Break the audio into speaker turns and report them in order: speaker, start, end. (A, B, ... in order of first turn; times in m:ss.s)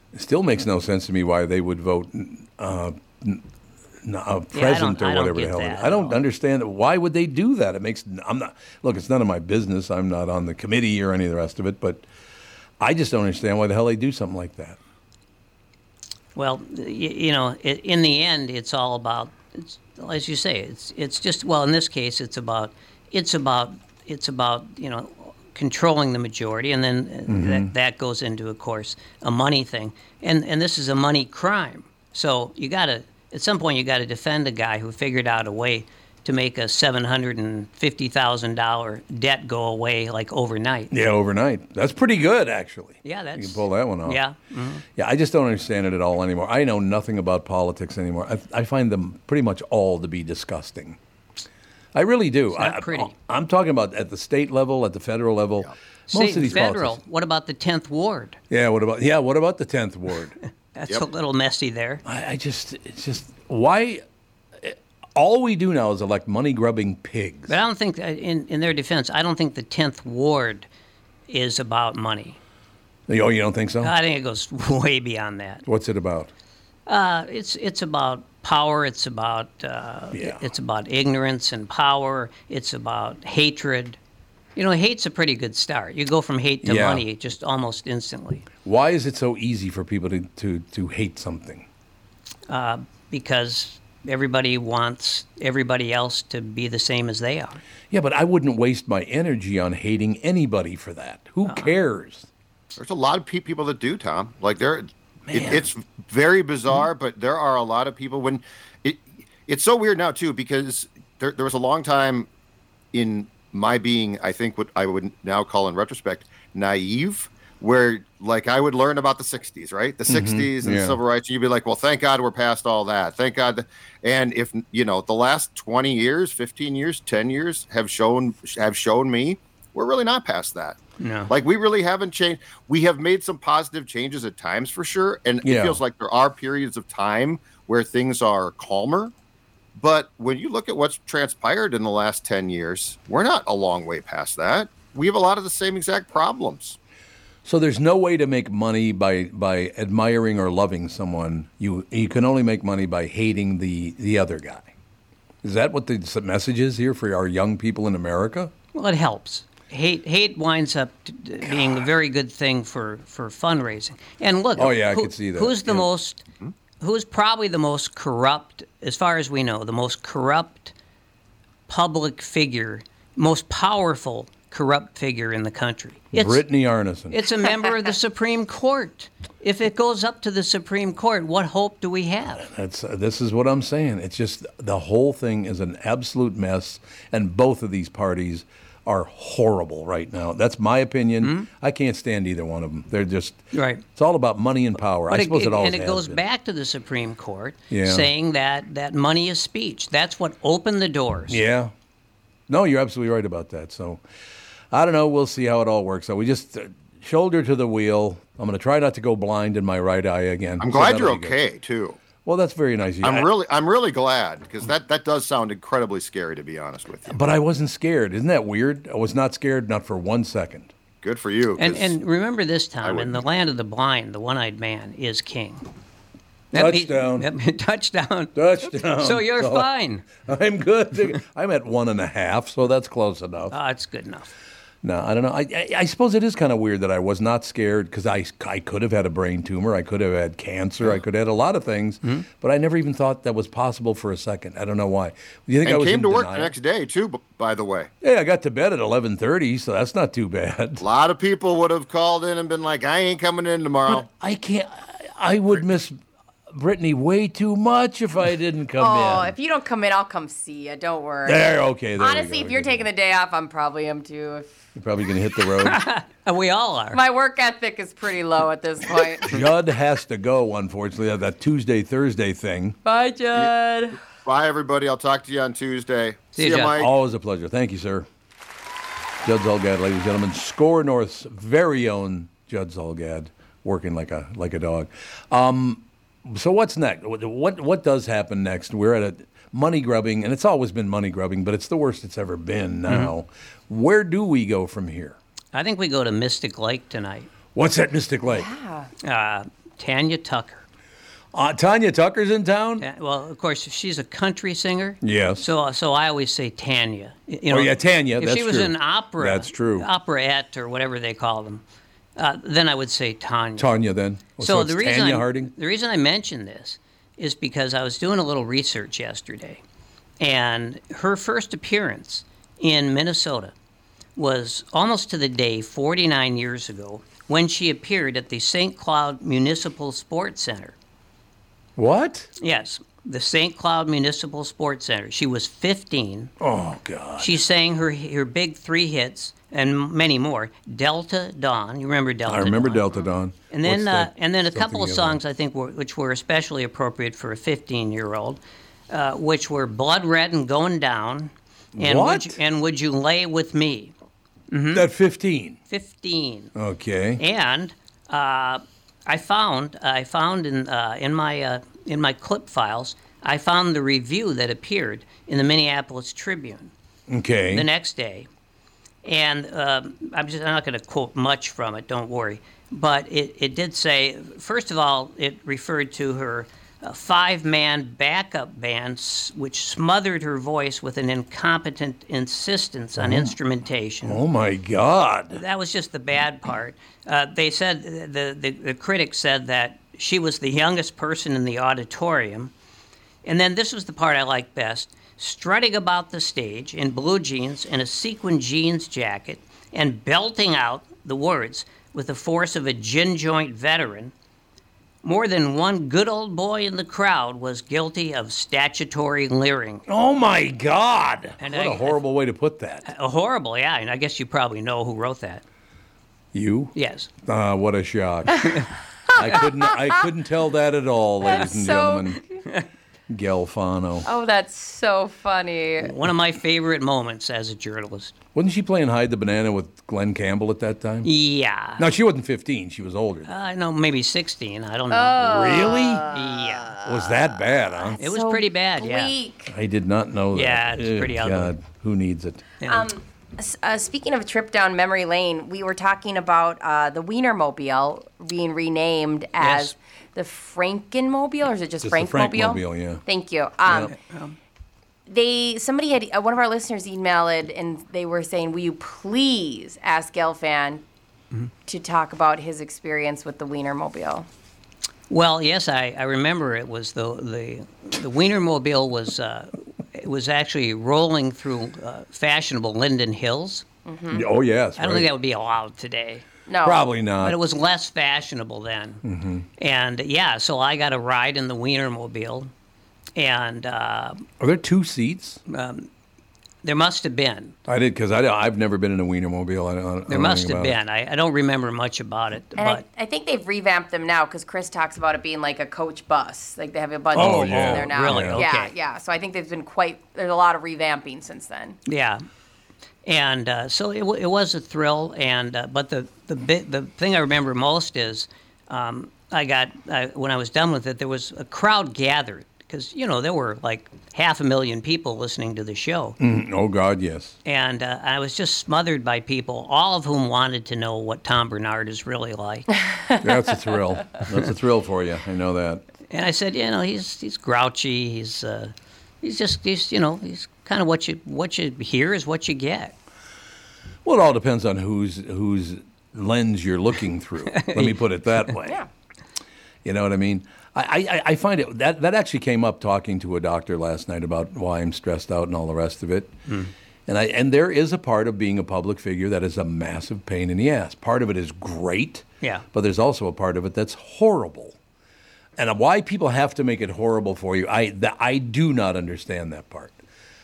0:00.1-0:03.4 A
0:04.0-0:12.1 A
0:04.5-0:06.2 B
0:12.8-0:14.8 A
0:16.4-0:40.9 B
0:27.3-0:27.7 A
0:40.9-0:44.2 A
0:43.0-0:44.8 B
0:45.0-0:51.0 A
0:51.9-0:57.0 A
0:52.5-0:53.1 B
0:56.1-0:58.4 B
0:58.5-1:00.4 A
1:00.8-1:02.0 B
1:02.0-1:04.0 A
1:04.6-1:07.5 A
1:07.5-1:10.7 B
1:11.3-1:12.4 B
1:13.1-1:13.9 A
1:13.8-1:15.6 B
1:15.6-1:16.3 A
1:16.9-1:24.0 B
1:20.1-1:20.4 A
1:24.6-1:28.5 B
1:26.6-1:27.0 A
1:28.6-1:31.6 A
1:32.5-1:37.6 B
1:37.9-1:42.3 A
1:41.4-1:41.7 B
1:42.8-1:52.3 C
1:45.3-1:45.6 A
1:52.9-2:10.8 C
2:00.1-2:01.0 A
2:11.0-2:11.3 B
2:11.3-2:19.1 C
2:15.4-2:15.8 A
2:19.8-2:26.8 C
2:27.4-2:34.7 A
2:35.4-2:38.5 A
2:38.7-2:46.2 B
2:44.6-2:45.9 A
2:46.8-2:50.7 B
2:51.7-2:56.4 B
2:56.1-2:57.2 A
2:57.1-3:02.4 B
3:02.4-3:16.2 A
3:11.2-3:11.5 B
3:13.5-3:13.8 B
3:15.1-3:21.4 B
3:17.7-3:18.1 A
3:21.3-3:21.7 A
3:22.5-3:24.0 A
3:24.7-3:31.4 A
3:30.6-3:32.0 C
3:32.2-3:33.3 A
3:33.0-3:37.2 C
3:37.1-3:40.7 A
3:41.0-3:41.9 C
3:41.6-3:45.6 B
3:42.8-3:43.2 C
3:46.5-3:48.4 B
3:46.5-3:47.3 A
3:48.4-3:53.5 A
3:49.0-3:50.1 B
3:53.5-3:54.3 B
3:54.8-4:06.5 A
4:05.6-4:07.9 C
4:08.0-4:10.8 A
4:10.8-4:14.0 C
4:13.9-4:16.0 A
4:16.5-4:19.3 A
4:18.8-4:24.5 D
4:21.3-4:22.8 A
4:24.7-4:25.8 A
4:25.6-4:27.0 B
4:26.9-4:29.4 D
4:29.2-4:32.8 A
4:32.8-4:34.0 D
4:34.2-4:36.9 C
4:36.3-4:36.8 B
4:36.7-4:38.0 A
4:39.2-4:55.2 A
4:52.9-4:53.1 B
4:55.5-4:57.3 B
4:57.5-4:58.5 A
4:58.3-4:58.9 D
4:59.0-5:00.6 B
5:01.3-5:02.8 A
5:02.8-5:11.6 B
5:05.0-5:05.5 A
5:07.5-5:09.9 A
5:12.2-5:13.7 B
5:13.6-5:15.5 A
5:14.4-5:19.6 B
5:20.2-5:23.5 B
5:24.2-5:30.7 B
5:31.8-5:32.3 A
5:32.4-5:36.3 B
5:36.4-5:37.4 A
5:37.2-5:42.8 B
5:42.3-5:45.2 A
5:43.5-5:53.9 B
5:51.8-5:52.4 A
5:54.5-5:54.9 B
5:54.7-5:55.6 A
5:55.7-5:56.5 B
5:56.6-5:57.2 A
5:57.2-6:06.7 B
6:07.1-6:07.7 A
6:07.5-6:08.3 B
6:09.0-6:24.2 B
6:23.0-6:23.3 A
6:24.0-6:25.4 A
6:25.3-6:32.5 B
6:33.2-6:44.1 B
6:45.0-6:49.9 B
6:49.9-6:52.9 A
6:51.4-6:52.0 B
6:52.8-6:55.4 B
6:56.3-7:02.2 A
6:56.7-6:57.1 B
7:01.2-7:02.4 D
7:03.1-7:04.1 A
7:04.0-7:05.9 D
7:05.8-7:08.1 B
7:08.3-7:11.1 A
7:11.0-7:11.8 B
7:11.8-7:13.3 A
7:13.3-7:16.7 B
7:14.9-7:17.1 D
7:15.2-7:16.0 A
7:16.8-7:18.0 A
7:17.8-7:19.5 D
7:18.0-7:19.1 B
7:19.5-7:22.4 A
7:20.3-7:21.5 B
7:22.6-7:22.9 B
7:22.6-7:33.9 D
7:29.4-7:29.7 B
7:31.8-7:33.0 A
7:33.7-7:33.9 A
7:33.9-7:34.4 B
7:35.1-7:40.8 D
7:41.7-7:44.3 D
7:45.1-7:53.6 B
7:53.9-7:54.3 D
7:54.1-7:55.1 A
7:54.8-7:56.3 B
7:56.5-7:56.9 D
7:56.6-7:57.4 A
7:57.2-7:59.0 B
7:59.0-7:59.4 A
7:59.6-8:02.5 B
8:03.2-8:04.2 B
8:04.4-8:05.4 A
8:05.5-8:05.9 B
8:06.6-8:07.6 B
8:07.7-8:10.8 A
8:10.1-8:12.8 B
8:12.6-8:21.8 D
8:17.1-8:18.4 A
8:17.1-8:18.7 B
8:21.9-8:22.2 B
8:23.0-8:36.2 B
8:36.2-8:37.4 A
8:37.4-8:42.7 B
8:43.2-8:45.8 A
8:46.1-8:53.0 B
8:54.0-8:58.8 A
8:57.6-8:58.0 B
8:59.8-9:06.3 A
9:07.1-9:14.8 A
9:15.6-9:20.0 A